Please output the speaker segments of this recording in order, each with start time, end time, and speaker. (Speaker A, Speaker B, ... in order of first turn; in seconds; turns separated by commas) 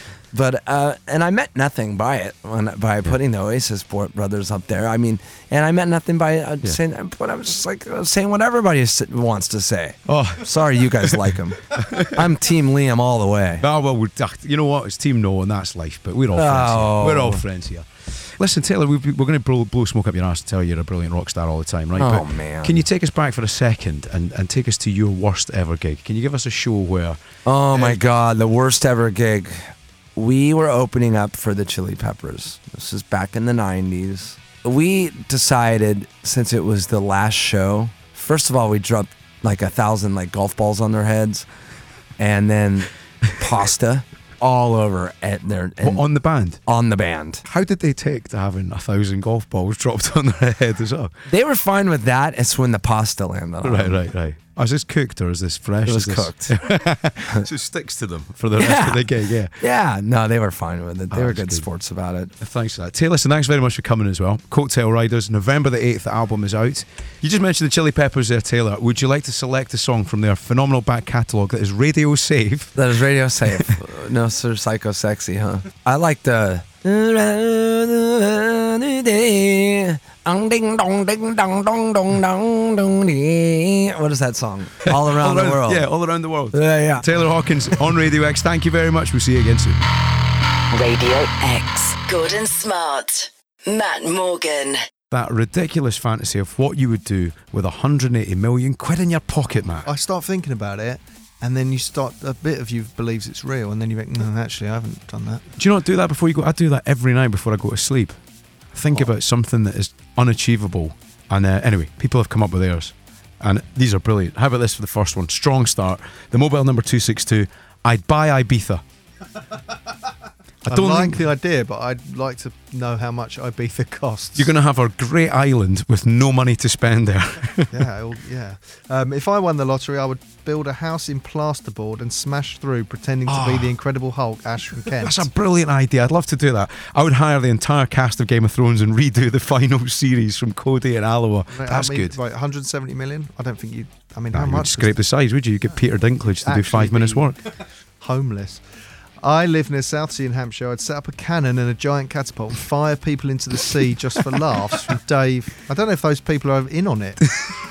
Speaker A: 0.3-13.7, Speaker B: 10.1-12.2, Speaker B: 13.6-27.2, Speaker A: 16.3-17.4, Speaker A: 22.0-22.8, Speaker A: 27.5-41.5, Speaker B: 27.7-28.0, Speaker A: 42.2-46.0, Speaker B: 45.8-46.6, Speaker A: 46.7-47.4, Speaker B: 47.5-51.1, Speaker A: 51.3-54.0, Speaker B: 53.6-59.5, Speaker A: 55.9-56.6, Speaker A: 58.6-62.3, Speaker B: 61.1-61.7, Speaker B: 62.4-72.8, Speaker A: 72.8-85.9, Speaker B: 73.5-73.8, Speaker B: 84.9-89.8, Speaker A: 86.5-87.1, Speaker C: 90.7-94.8, Speaker B: 95.1-99.9, Speaker D: 99.8-105.4, Speaker B: 105.6-108.2, Speaker B: 108.7-118.8, Speaker D: 120.7-124.5, Speaker B: 120.7-121.2, Speaker B: 124.4-127.9, Speaker D: 127.7-135.3, Speaker B: 133.3-133.7, Speaker B: 134.9-142.2, Speaker D: 141.5-144.9, Speaker B: 144.3-147.4, Speaker D: 146.4-147.4, Speaker D: 148.0-148.6, Speaker D: 149.2-157.2